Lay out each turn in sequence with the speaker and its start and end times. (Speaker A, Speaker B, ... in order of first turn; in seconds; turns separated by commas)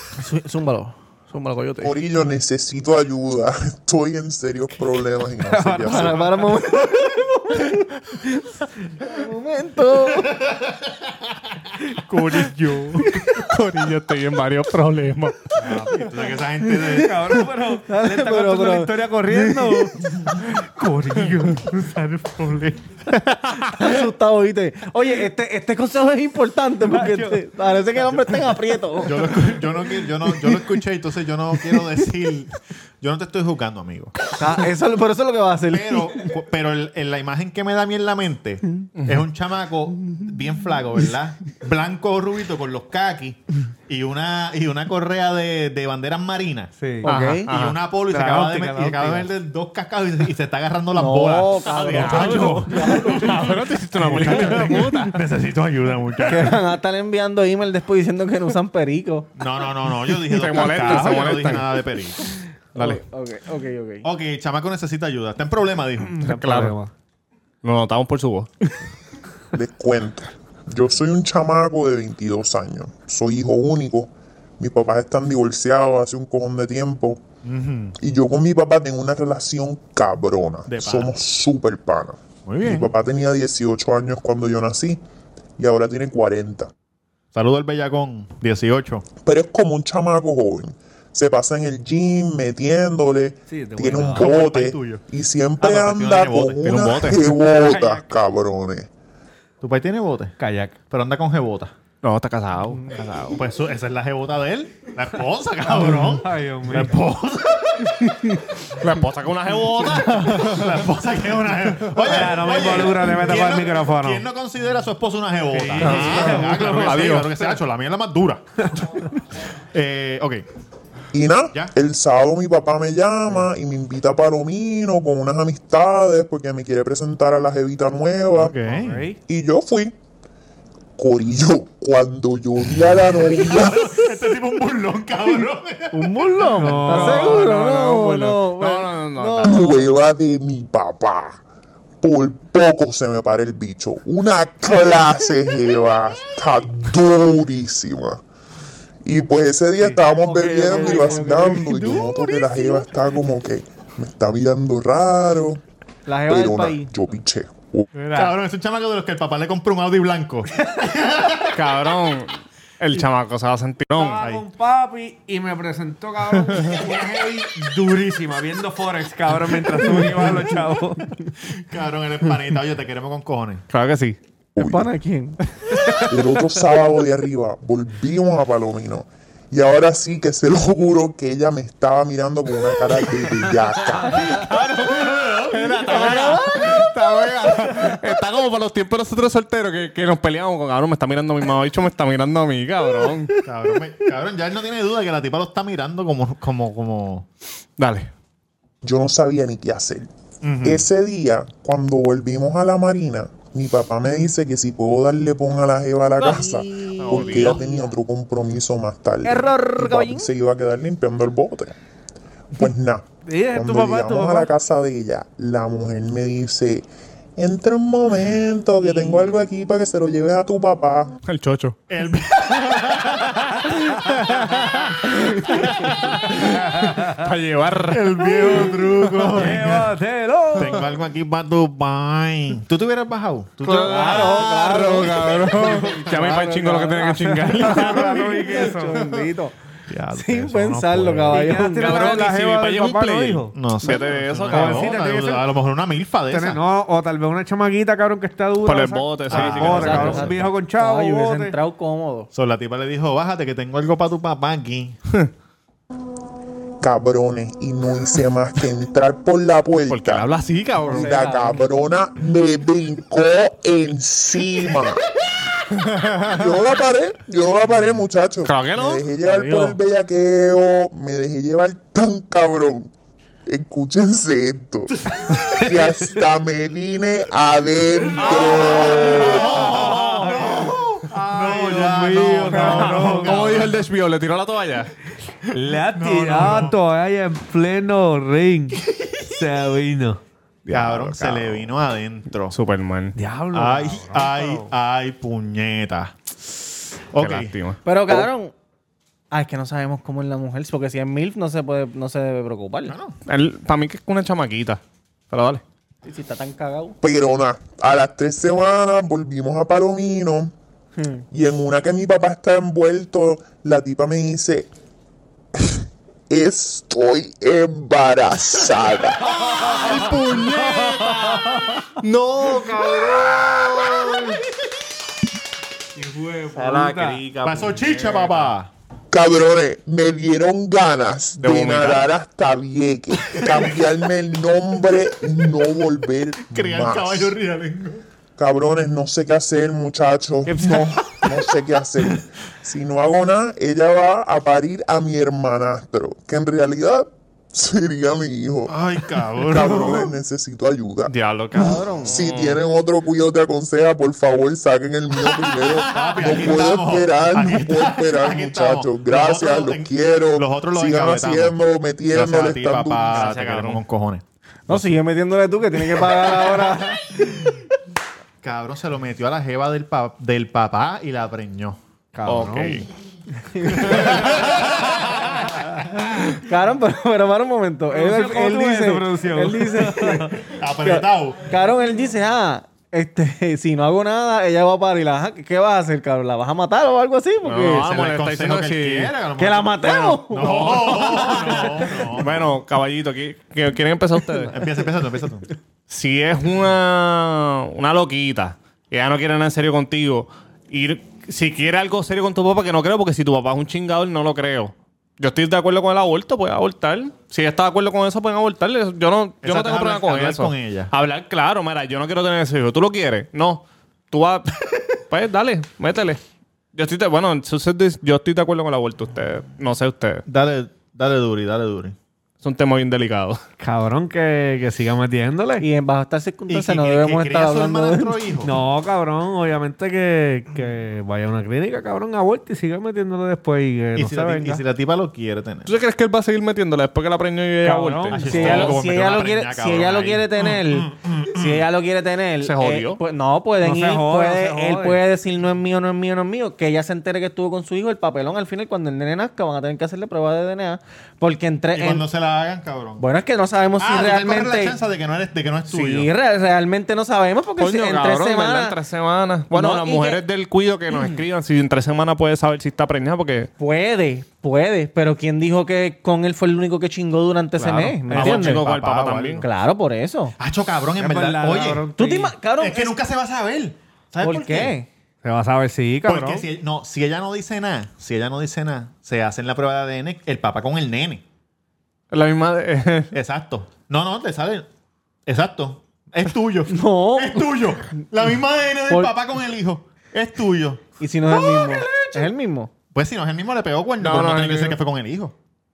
Speaker A: 0.1-1.9, Speaker B: 1.8-6.3, Speaker C: 5.4-6.5, Speaker A: 5.8-10.4, Speaker D: 10.2-11.0, Speaker D: 12.1-12.5, Speaker C: 12.4-13.0, Speaker E: 13.3-15.5, Speaker D: 15.5-17.4, Speaker C: 16.7-22.8, Speaker A: 17.7-19.9, Speaker A: 23.7-29.4, Speaker C: 26.8-27.4, Speaker D: 29.0-34.3, Speaker A: 34.4-36.1, Speaker D: 35.7-46.7, Speaker C: 46.8-47.1, Speaker A: 47.0-47.5, Speaker E: 47.0-47.8, Speaker D: 47.5-56.6, Speaker C: 48.1-49.3, Speaker A: 50.9-53.4, Speaker E: 51.9-55.2, Speaker C: 52.0-52.5, Speaker A: 56.2-59.3, Speaker D: 59.4-62.2, Speaker E: 60.2-61.8, Speaker A: 62.7-64.1, Speaker D: 64.0-66.2, Speaker C: 66.2-66.9, Speaker E: 66.2-66.8, Speaker E: 67.6-68.5, Speaker B: 69.5-77.2, Speaker D: 77.4-78.0, Speaker B: 78.0-85.0, Speaker D: 80.7-81.1, Speaker D: 82.5-82.9, Speaker B: 85.6-86.7, Speaker D: 87.3-89.0, Speaker B: 89.2-98.9, Speaker C: 93.5-94.3, Speaker D: 94.1-95.0, Speaker D: 95.6-97.2, Speaker E: 96.6-97.2, Speaker C: 97.3-98.1, Speaker D: 99.6-100.3, Speaker C: 100.4-100.8, Speaker D: 100.9-101.7, Speaker E: 102.0-103.4, Speaker D: 103.0-108.1, Speaker C: 105.7-106.9, Speaker E: 108.8-110.6, Speaker D: 109.5-118.4, Speaker C: 112.0-114.2, Speaker C: 115.5-117.4, Speaker E: 115.8-117.3, Speaker D: 119.7-120.5, Speaker B: 121.1-128.6, Speaker D: 128.4-129.1, Speaker C: 128.7-129.2, Speaker B: 129.2-129.9, Speaker B: 131.0-133.9, Speaker D: 133.1-137.2, Speaker A: 135.9-139.8, Speaker C: 136.5-138.4, Speaker E: 136.9-137.5, Speaker E: 138.6-139.7, Speaker B: 139.4-141.4, Speaker B: 142.0-148.2, Speaker B: 149.0-155.6, Speaker C: 149.8-152.1, Speaker A: 150.3-152.4, Speaker A: 156.1-156.9, Speaker B: 156.2-157.9, Speaker C: 157.9-158.3, Speaker D: 158.1-161.6, Speaker E: 161.5-164.2, Speaker C: 163.9-171.2, Speaker D: 164.2-164.4, Speaker E: 166.5-166.8, Speaker D: 171.4-173.6, Speaker E: 173.7-174.2, Speaker B: 174.6-174.9, Speaker A: 174.6-175.4, Speaker B: 176.1-184.3, Speaker C: 184.1-184.7, Speaker E: 184.2-193.3, Speaker D: 184.4-186.2, Speaker D: 193.4-197.3, Speaker E: 197.8-198.1, Speaker B: 198.8-200.1, Speaker D: 200.4-200.8, Speaker B: 200.6-211.7, Speaker A: 206.2-207.9, Speaker E: 207.0-207.6, Speaker A: 209.2-210.3, Speaker B: 212.5-216.8, Speaker C: 213.2-214.5, Speaker B: 217.4-221.1, Speaker A: 218.9-219.2, Speaker E: 221.2-221.8, Speaker D: 221.9-223.6, Speaker E: 222.8-229.7, Speaker D: 224.3-224.7, Speaker D: 225.5-226.2, Speaker D: 227.9-229.9, Speaker C: 229.3-230.9, Speaker D: 230.5-234.3, Speaker E: 233.6-239.0, Speaker A: 233.7-239.5, Speaker C: 233.9-236.3, Speaker C: 237.5-239.0, Speaker D: 239.9-241.6, Speaker A: 240.1-242.1, Speaker C: 241.3-243.5, Speaker E: 241.6-245.0, Speaker D: 243.5-246.6, Speaker C: 244.5-245.4, Speaker C: 246.3-251.6, Speaker E: 248.6-250.3, Speaker D: 249.3-250.4, Speaker A: 249.3-252.3, Speaker D: 252.3-255.0, Speaker B: 256.8-260.3, Speaker E: 259.9-261.2, Speaker B: 260.9-265.0, Speaker A: 260.9-261.7, Speaker B: 266.2-272.9, Speaker E: 268.4-269.0, Speaker A: 269.4-269.8, Speaker B: 273.5-279.6, Speaker C: 278.2-283.6, Speaker D: 279.0-283.8, Speaker E: 282.5-284.9, Speaker C: 285.5-290.2, Speaker D: 285.7-286.8, Speaker E: 290.6-291.7, Speaker D: 290.7-292.6, Speaker E: 292.5-293.2, Speaker C: 293.1-294.6, Speaker D: 293.5-296.2, Speaker D: 297.1-297.5, Speaker E: 297.1-297.8, Speaker A: 297.8-298.5, Speaker A: 299.3-302.9, Speaker D: 302.9-303.1, Speaker E: 303.3-305.6, Speaker A: 306.0-306.9, Speaker B: 307.0-310.5, Speaker A: 311.0-311.2, Speaker B: 311.3-314.7, Speaker B: 315.6-319.4, Speaker E: 319.3-324.4, Speaker C: 319.4-320.1, Speaker C: 320.8-321.2, Speaker C: 325.9-327.3, Speaker E: 326.5-328.5, Speaker D: 327.4-328.7, Speaker B: 329.1-337.3, Speaker E: 331.4-332.1, Speaker D: 336.5-338.0, Speaker B: 338.4-348.8, Speaker D: 348.7-350.1, Speaker B: 349.4-363.2, Speaker E: 351.1-352.6, Speaker A: 351.6-352.1, Speaker D: 355.7-361.6, Speaker D: 362.1-364.9, Speaker E: 363.1-363.8, Speaker A: 364.7-367.6, Speaker D: 366.0-366.4, Speaker D: 368.4-371.8, Speaker C: 372.1-372.8, Speaker E: 372.2-372.9, Speaker A: 373.5-374.0, Speaker D: 373.8-375.5, Speaker A: 376.4-387.9, Speaker C: 377.9-380.3, Speaker D: 380.4-381.4, Speaker E: 387.4-389.1, Speaker D: 387.7-392.5, Speaker A: 389.4-392.0, Speaker E: 390.4-394.6, Speaker D: 394.5-395.5, Speaker E: 395.9-416.2, Speaker D: 409.4-410.9, Speaker E: 416.7-420.2, Speaker D: 420.3-421.9, Speaker E: 422.4-423.4, Speaker C: 423.6-425.7, Speaker A: 425.6-428.1, Speaker D: 426.5-428.6, Speaker C: 428.4-434.6, Speaker D: 433.9-435.7, Speaker E: 435.6-438.7, Speaker C: 437.6-438.7, Speaker D: 438.1-441.6, Speaker A: 438.3-452.0, Speaker E: 442.4-443.0, Speaker C: 443.6-445.0, Speaker D: 451.7-453.1, Speaker A: 453.0-454.8, Speaker D: 453.8-456.1, Speaker A: 455.7-458.8, Speaker E: 457.6-463.5, Speaker A: 459.5-460.2, Speaker A: 463.6-468.6, Speaker E: 467.6-469.4, Speaker C: 468.1-468.4, Speaker D: 468.1-469.4, Speaker A: 469.4-470.3, Speaker D: 470.4-471.9, Speaker C: 471.0-472.3, Speaker A: 471.9-473.0, Speaker D: 472.6-474.8, Speaker A: 474.2-474.9, Speaker C: 475.2-476.4, Speaker D: 476.0-481.2, Speaker E: 482.1-483.1, Speaker D: 483.1-484.7, Speaker D: 485.2-490.8, Speaker A: 486.7-487.6, Speaker A: 491.0-492.7, Speaker D: 492.9-495.3, Speaker E: 494.0-494.8